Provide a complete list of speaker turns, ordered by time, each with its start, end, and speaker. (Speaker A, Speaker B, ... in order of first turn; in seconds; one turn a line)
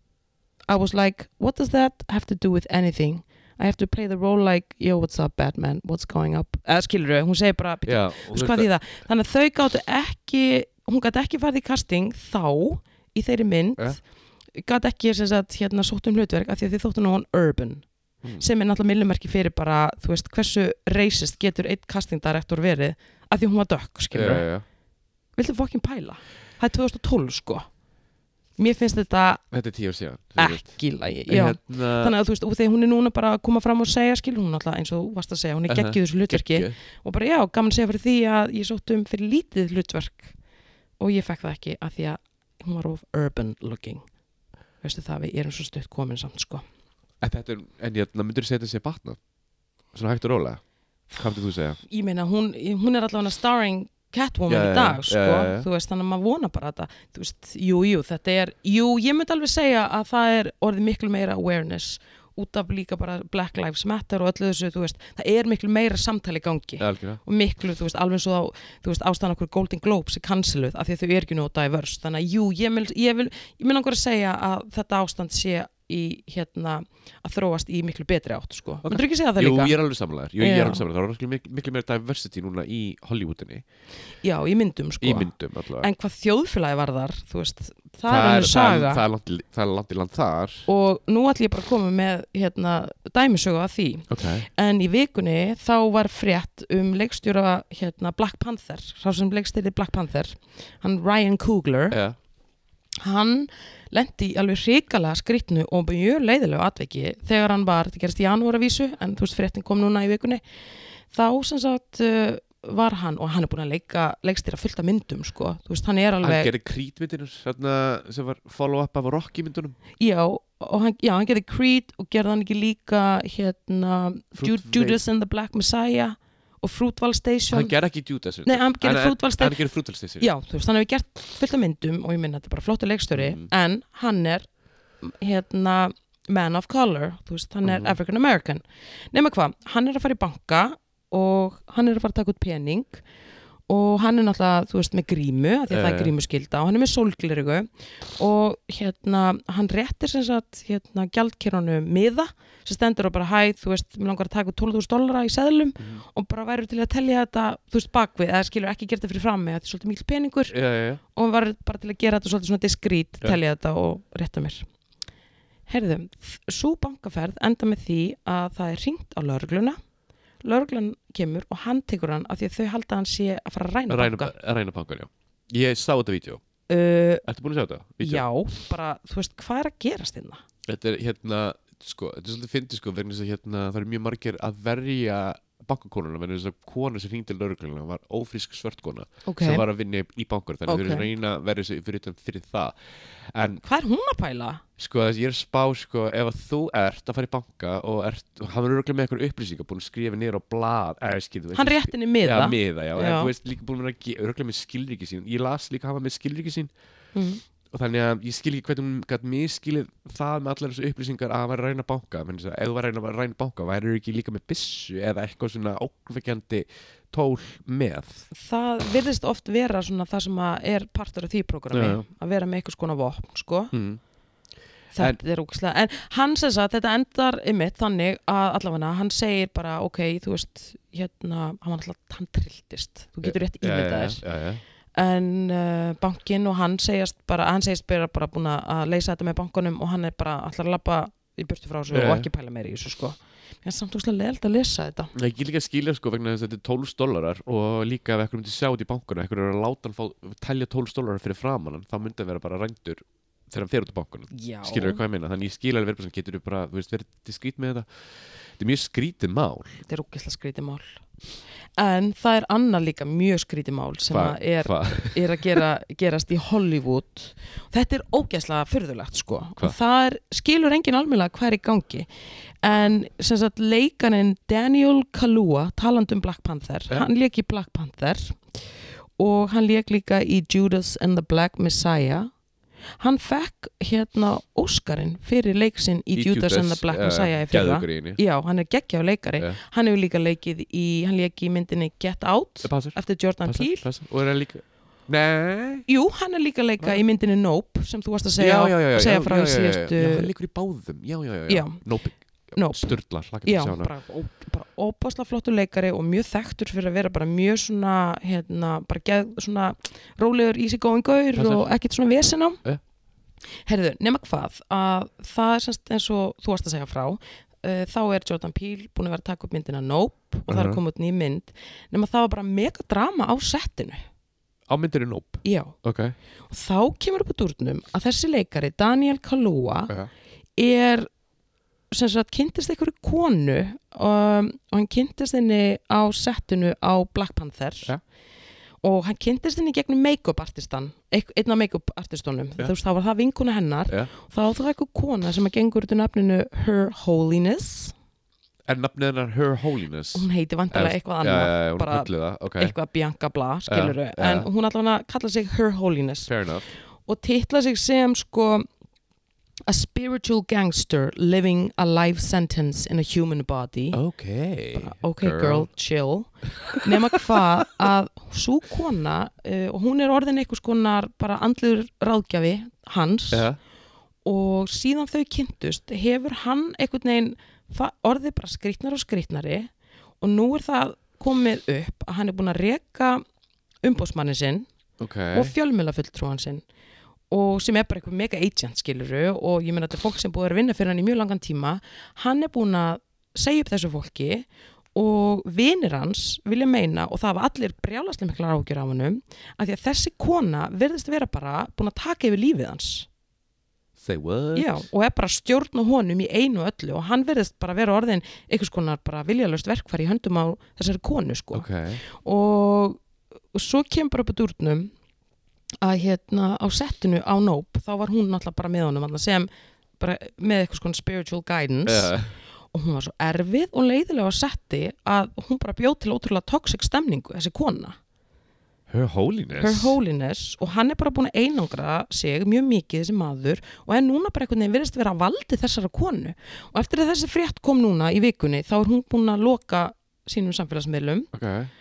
Speaker A: 0.7-14.0
Speaker B: 7.8-8.7
Speaker A: 14.5-17.8
Speaker A: 18.4-24.5
Speaker B: 24.1-24.6
Speaker A: 25.4-27.7
Speaker A: 28.6-29.4
Speaker B: 29.5-30.7
Speaker A: 30.4-40.4
Speaker B: 31.3-32.1
Speaker B: 35.7-36.8
Speaker A: 41.0-44.0
Speaker A: 44.8-46.6
Speaker B: 47.2-49.2
Speaker B: 49.9-50.6
Speaker B: 51.1-51.8
Speaker A: 51.9-79.8
Speaker B: 54.5-55.7
Speaker B: 66.8-67.2
Speaker B: 78.8-83.6
Speaker A: 80.4-80.8
Speaker A: 84.2-89.0
Speaker B: 85.0-85.9
Speaker B: 88.1-90.7
Speaker A: 90.7-102.0
Speaker B: 94.1-94.5
Speaker B: 101.9-102.2
Speaker A: 103.0-110.4
Speaker A: 111.1-116.5
Speaker B: 116.2-119.8
Speaker A: 120.0-127.7
Speaker B: 124.4-125.0
Speaker B: 127.5-130.3
Speaker A: 128.4-129.6
Speaker A: 130.2-134.5
Speaker B: 133.1-133.5
Speaker A: 135.0-138.6
Speaker B: 137.6-137.9
Speaker A: 139.1-143.0
Speaker A: 143.7-160.6
Speaker B: 145.7-146.1
Speaker B: 160.5-161.0
Speaker A: 161.1-164.7
Speaker A: 165.7-169.8
Speaker A: 170.4-174.3
Speaker B: 173.9-176.4
Speaker A: 176.7-177.2
Speaker B: 177.2-178.2
Speaker A: 178.0-180.4
Speaker B: 180.7-192.7
Speaker A: 189.2-189.6
Speaker A: 190.7-191.1
Speaker B: 193.3-193.6
Speaker A: 193.6-194.6
Speaker B: 194.8-206.7
Speaker A: 201.5-203.3
Speaker A: 207.1-207.4
Speaker B: 207.7-218.3
Speaker A: 218.3-223.7
Speaker B: 221.7-222.0
Speaker B: 223.7-224.0
Speaker A: 224.9-234.2
Speaker B: 233.2-234.6
Speaker A: 234.9-245.1
Speaker B: 241.9-242.3
Speaker B: 245.1-257.9
Speaker A: 254.3-255.0
Speaker B: 258.6-259.8
Speaker A: 259.9-261.0
Speaker A: 261.8-272.1
Speaker B: 264.1-265.6
Speaker A: 272.6-278.4
Speaker A: 279.2-282.3
Speaker A: 283.0-293.9
Speaker B: 286.1-288.2
Speaker B: 292.6-295.9
Speaker A: 295.9-300.3
Speaker B: 298.4-303.9
Speaker A: 301.5-301.8
Speaker A: 302.5-312.6
Speaker B: 311.4-311.7
Speaker A: 313.6-324.0
Speaker B: 320.5-320.8
Speaker B: 324.7-326.1
Speaker A: 325.4-325.7
Speaker A: 326.5-329.9
Speaker A: 330.6-331.1
Speaker A: 331.9-337.9
Speaker A: 338.8-347.9
Speaker B: 348.6-352.7
Speaker A: 350.1-356.3
Speaker B: 353.7-354.5
Speaker B: 356.3-356.7
Speaker A: 357.1-358.7
Speaker A: 359.7-364.0
Speaker B: 363.9-365.7
Speaker A: 364.8-373.5
Speaker B: 373.3-373.6
Speaker A: 374.2-379.7
Speaker A: 380.2-383.2
Speaker A: 383.8-384.7
Speaker B: 385.0-385.5
Speaker A: 385.3-386.6
Speaker A: 387.3-403.1
Speaker B: 404.0-404.8
Speaker A: 404.5-413.0
Speaker B: 411.5-412.0
Speaker A: 413.5-414.9
Speaker A: 415.8-422.1
Speaker B: 421.9-422.3
Speaker A: 422.7-428.0
Speaker B: 428.9-430.0
Speaker A: 429.6-441.3
Speaker B: 441.3-441.7